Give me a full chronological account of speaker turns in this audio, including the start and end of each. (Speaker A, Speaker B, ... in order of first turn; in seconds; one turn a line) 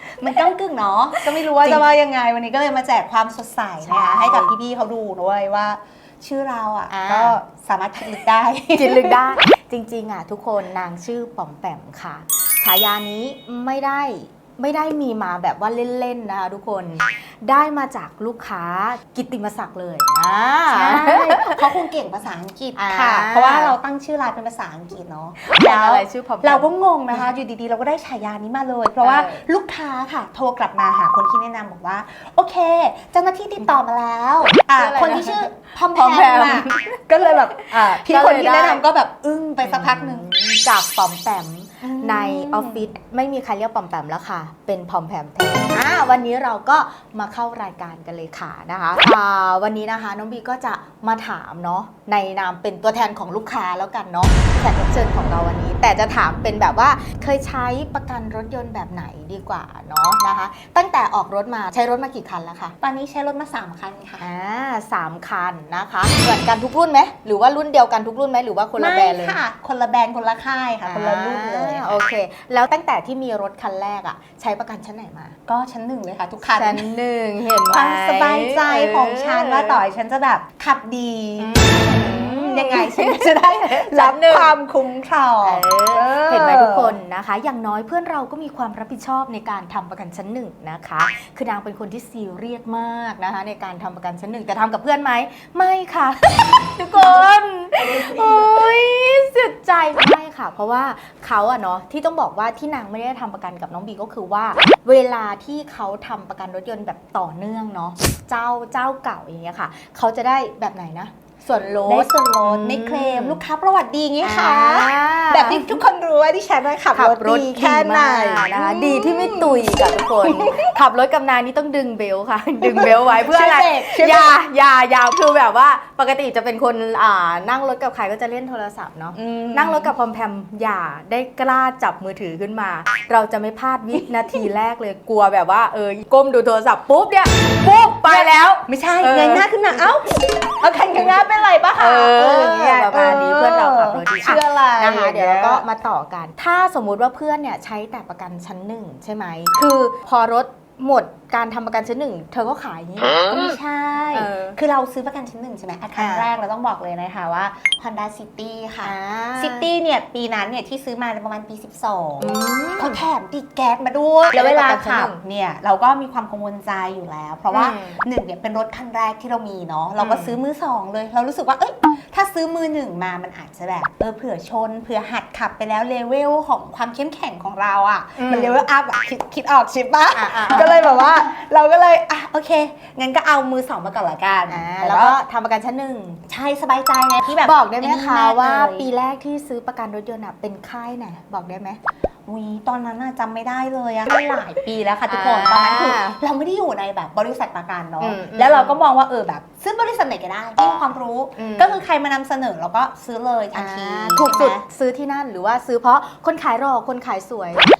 Speaker A: 0.2-9.2
Speaker B: 1.2-1.8
Speaker B: 3.8-4.5
Speaker B: 6.9-7.4
Speaker B: 8.8-21.6
Speaker A: 20.7-40.3
Speaker B: 22.8-23.7
Speaker B: 25.4-27.3
Speaker B: 29.0-29.4
Speaker B: 34.8-37.0
Speaker B: 37.5-38.8
Speaker B: 39.6-62.8
Speaker A: 41.8-42.9
Speaker A: 62.8-64.2
Speaker B: 64.2-69.4
Speaker A: 68.8-72.0
Speaker B: 70.9-75.4
Speaker A: 75.5-76.9
Speaker B: 76.5-79.8
Speaker A: 77.7-87.0
Speaker B: 81.4-84.5
Speaker B: 85.4-113.4
Speaker A: 97.9-98.5
Speaker A: 111.9-120.7
Speaker B: 114.2-115.8
Speaker B: 116.9-139.8
Speaker A: 122.6-124.4
Speaker A: 129.2-129.9
Speaker A: 134.0-134.5
Speaker A: 137.9-145.6
Speaker B: 140.7-141.2
Speaker B: 141.8-153.6
Speaker A: 153.3-185.2
Speaker B: 154.1-154.6
Speaker B: 156.0-156.3
Speaker B: 158.8-159.7
Speaker B: 162.2-163.0
Speaker B: 164.3-165.2
Speaker B: 167.5-168.1
Speaker B: 170.0-170.4
Speaker B: 178.2-178.6
Speaker B: 180.2-180.8
Speaker B: 184.5-186.2
Speaker A: 186.3-188.9
Speaker B: 187.4-191.8
Speaker A: 192.3-204.6
Speaker B: 195.1-196.2
Speaker B: 198.0-198.8
Speaker B: 201.4-201.8
Speaker B: 203.5-207.7